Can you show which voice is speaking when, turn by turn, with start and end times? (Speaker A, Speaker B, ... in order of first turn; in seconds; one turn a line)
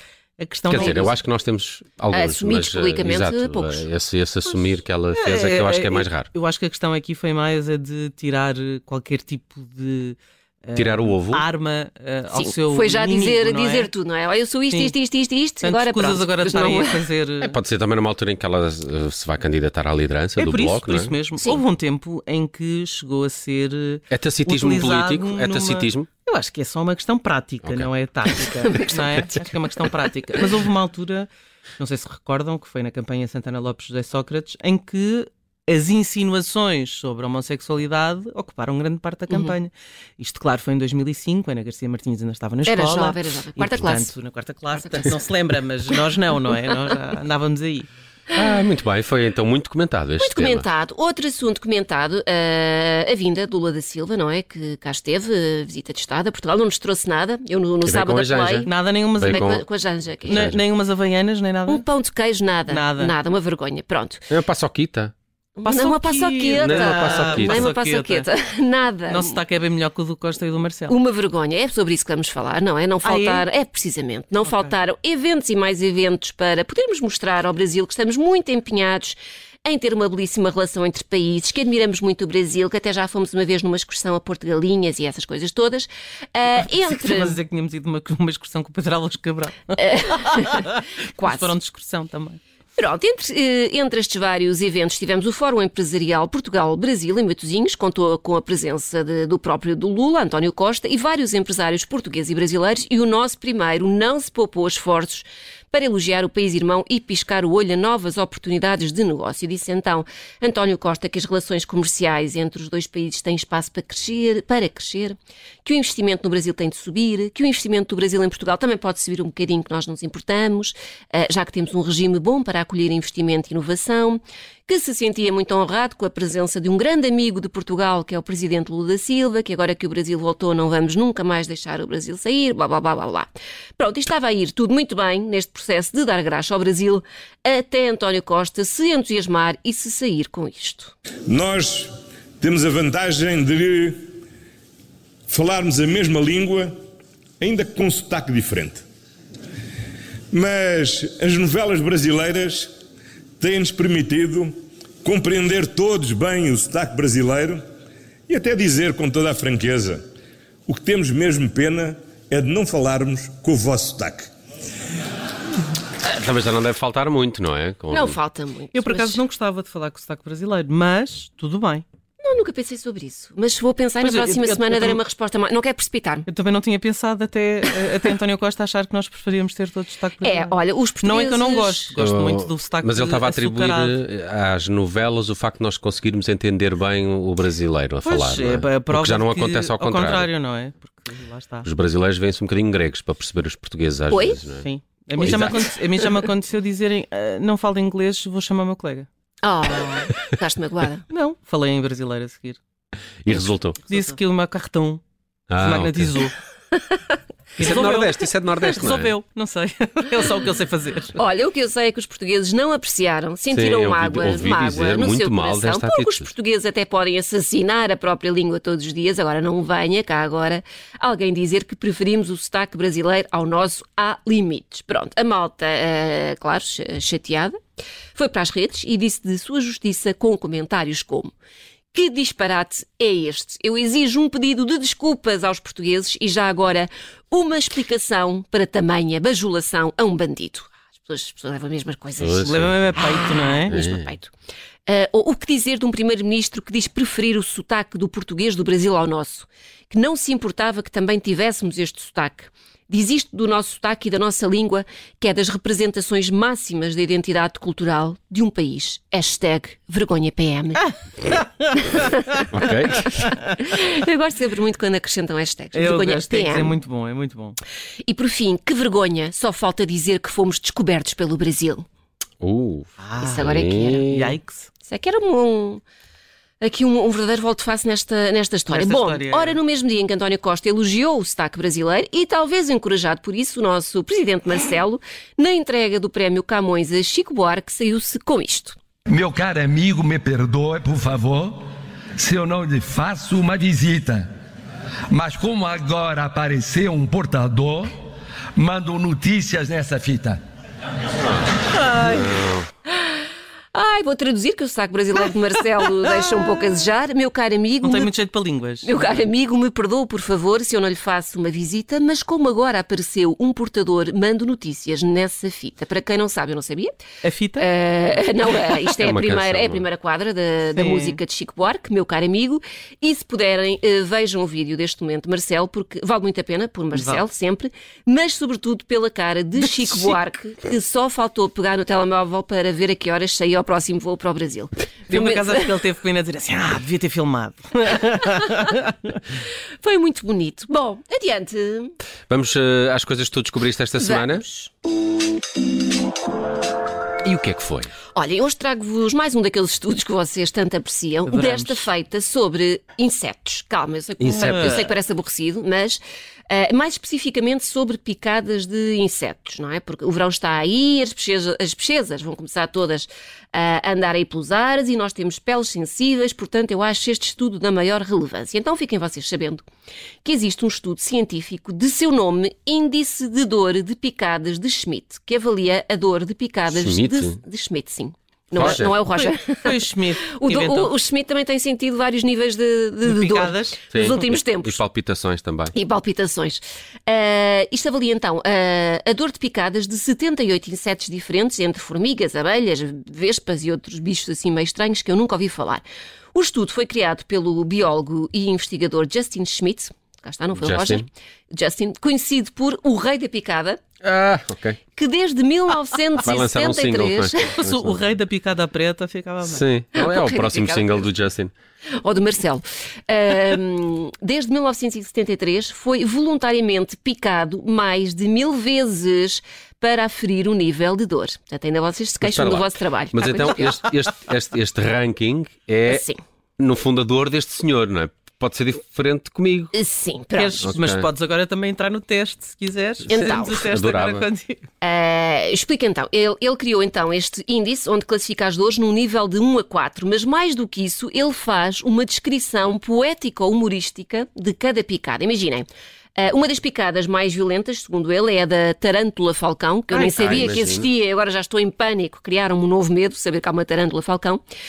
Speaker A: 0.4-1.1
Speaker B: 0.7-6.3
Speaker C: 0.7-1.1
Speaker C: 2.1-3.9
Speaker A: 5.1-13.9
Speaker B: 10.8-11.4
Speaker C: 12.3-17.0
Speaker A: 15.6-17.6
Speaker B: 17.4-21.1
Speaker A: 20.4-47.9
Speaker B: 24.1-26.1
Speaker B: 27.6-27.9
Speaker C: 28.7-29.3
Speaker C: 39.3-39.5
Speaker C: 42.7-44.1
Speaker C: 44.7-45.1
Speaker B: 48.3-50.6
Speaker C: 50.2-58.7
Speaker B: 57.9-59.6
Speaker A: 58.6-59.5
Speaker C: 59.2-60.5
Speaker B: 60.2-60.6
Speaker A: 60.3-61.8
Speaker C: 61.7-64.3
Speaker A: 62.7-63.1
Speaker B: 64.3-65.1
Speaker C: 65.6-69.4
Speaker A: 65.7-68.3
Speaker B: 66.6-67.7
Speaker A: 69.1-70.9
Speaker C: 70.9-87.4
Speaker A: 73.0-73.4
Speaker A: 86.7-92.4
Speaker C: 89.8-91.5
Speaker C: 92.8-140.9
Speaker D: 141.3-144.0
Speaker D: 145.3-146.7
Speaker D: 147.4-148.8
Speaker D: 150.3-152.7
Speaker D: 153.4-154.5
Speaker D: 155.0-157.6
Speaker D: 158.3-160.0
Speaker D: 160.7-164.3
Speaker B: 166.0-168.2
Speaker C: 167.9-169.2
Speaker A: 168.7-171.8
Speaker C: 172.2-176.3
Speaker A: 174.0-175.0
Speaker A: 176.3-183.9
Speaker C: 180.2-181.9
Speaker B: 182.0-190.3
Speaker A: 188.0-191.7
Speaker B: 191.6-194.7
Speaker C: 194.1-194.4
Speaker A: 194.6-199.1
Speaker C: 195.2-195.7
Speaker B: 195.2-195.6
Speaker C: 199.4-201.1
Speaker A: 201.1-202.6
Speaker B: 203.2-203.9
Speaker A: 203.8-205.0
Speaker B: 205.5-206.1
Speaker A: 205.6-206.3
Speaker A: 207.6-211.2
Speaker B: 207.6-209.1
Speaker C: 211.2-227.6
Speaker B: 213.5-216.2
Speaker C: 228.2-231.3
Speaker C: 231.9-244.3
Speaker B: 242.2-242.9
Speaker A: 242.4-243.7
Speaker B: 243.7-244.1
Speaker C: 244.9-260.8
Speaker C: 261.9-262.1
Speaker B: 262.5-263.1
Speaker C: 262.9-266.8
Speaker A: 265.7-267.6
Speaker C: 268.0-271.8
Speaker B: 272.4-274.4
Speaker A: 273.0-273.4
Speaker C: 273.2-274.1
Speaker A: 274.1-274.7
Speaker C: 274.9-275.8
Speaker C: 276.6-288.8
Speaker A: 278.7-279.6
Speaker E: 289.1-291.6
Speaker E: 292.2-294.3
Speaker E: 295.1-297.9
Speaker E: 298.6-300.4
Speaker B: 301.2-302.7
Speaker A: 301.8-302.3
Speaker C: 303.7-308.1
Speaker A: 307.8-309.2
Speaker C: 308.8-316.9
Speaker A: 317.2-317.6
Speaker C: 317.6-335.7
Speaker B: 319.0-319.8
Speaker A: 320.8-321.2
Speaker A: 326.9-327.2
Speaker A: 335.1-338.9
Speaker C: 339.8-341.9
Speaker B: 342.3-344.4
Speaker C: 344.0-344.7
Speaker B: 347.2-347.9
Speaker C: 348.1-369.6
Speaker A: 351.3-351.8
Speaker B: 354.2-354.9
Speaker A: 354.3-354.8
Speaker C: 370.2-384.8
Speaker B: 376.7-377.4
Speaker B: 378.6-379.0
Speaker A: 378.6-380.9
Speaker A: 383.0-384.1
Speaker B: 383.9-385.7
Speaker C: 385.7-395.8
Speaker C: 396.3-403.8
Speaker B: 400.6-401.1
Speaker B: 404.0-404.8
Speaker C: 404.9-407.5
Speaker B: 406.2-408.0
Speaker A: 407.6-409.6
Speaker B: 409.4-411.5
Speaker C: 409.9-411.0
Speaker C: 412.0-423.8
Speaker B: 422.2-426.0
Speaker C: 425.9-426.2
Speaker B: 426.6-429.7
Speaker C: 429.7-430.6
Speaker A: 430.3-434.6
Speaker B: 430.6-431.1
Speaker C: 433.1-433.6
Speaker B: 433.5-434.3
Speaker C: 434.8-454.4
Speaker A: 449.9-450.6
Speaker B: 450.2-450.9